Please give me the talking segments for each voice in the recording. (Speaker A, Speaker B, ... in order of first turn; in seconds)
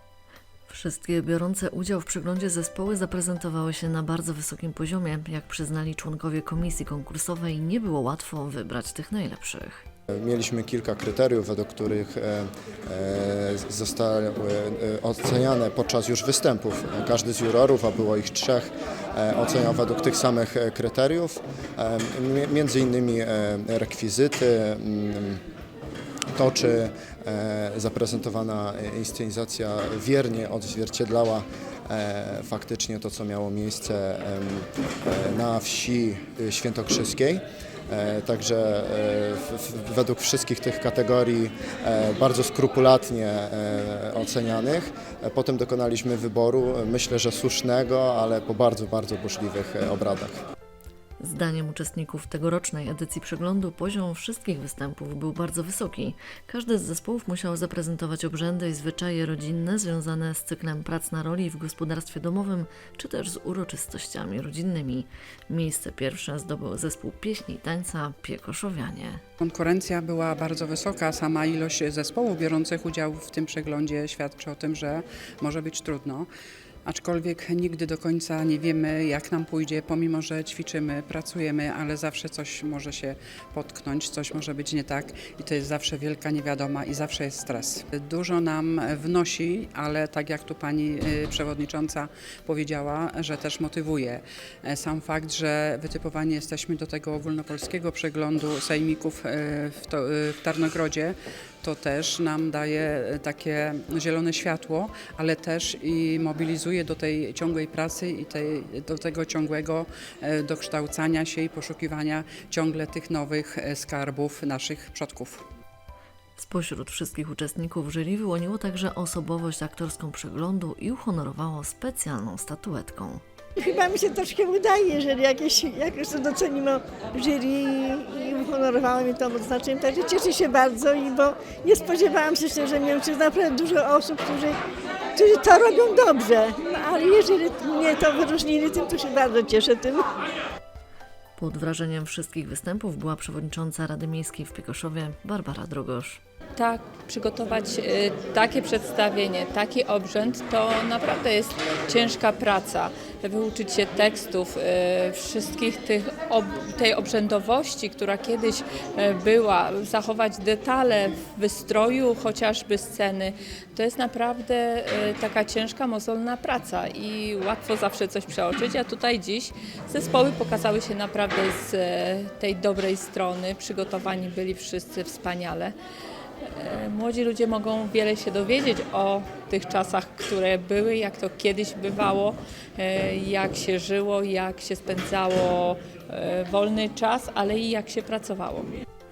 Speaker A: 0.7-9.8, 51.2-69.2, 116.4-123.2, 141.4-146.2
Speaker B: 10.1-25.4, 26.3-50.4
Speaker C: 69.4-76.3, 76.8-115.4
Speaker D: 123.6-134.6, 135.1-140.1
Speaker E: 146.6-175.7, 176.4-188.7